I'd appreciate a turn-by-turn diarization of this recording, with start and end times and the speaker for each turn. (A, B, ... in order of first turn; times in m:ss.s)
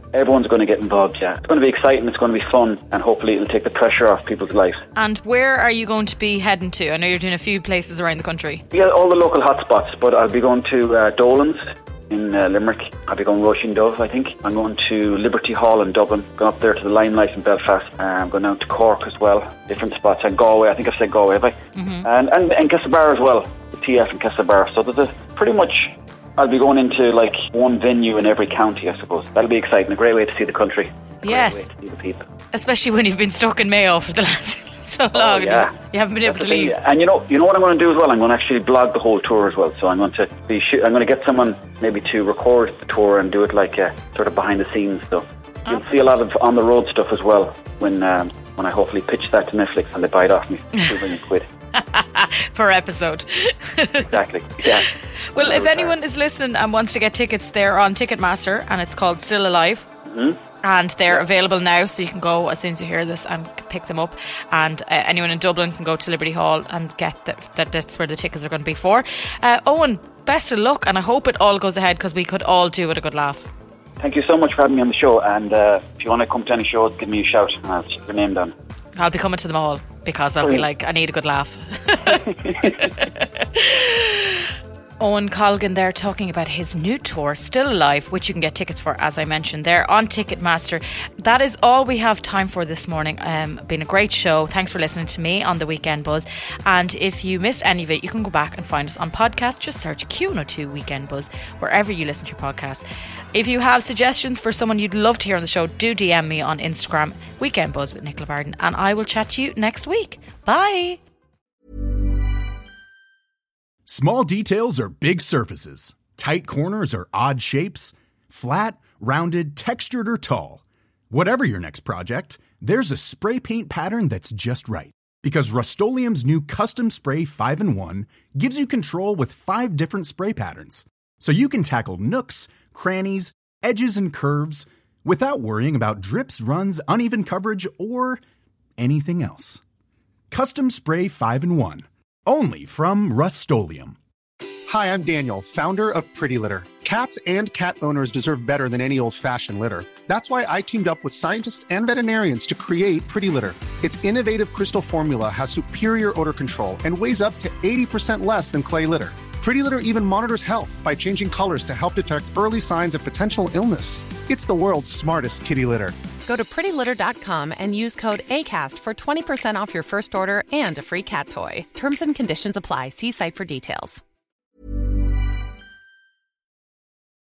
0:00.1-0:04.8 A
0:05.0-0:08.6 B
0:08.7-0:32.3 A
0:21.8-0:22.1 B
0:31.2-0:31.6 B
0:32.5-0:36.7 B
0:35.1-0:35.7 A
0:36.3-0:51.4 A
0:51.8-0:54.1 B
0:54.0-0:55.9 A
0:55.3-0:59.9 B
1:00.1-1:00.4 A
1:00.6-1:13.5 B
1:14.0-1:18.5 A
1:19.0-1:51.0 B
1:22.1-1:22.9 A
1:53.9-2:18.2 C
2:18.8-2:19.6 C
2:20.3-2:24.0 C
2:24.7-2:46.0 D
2:46.2-2:54.0 E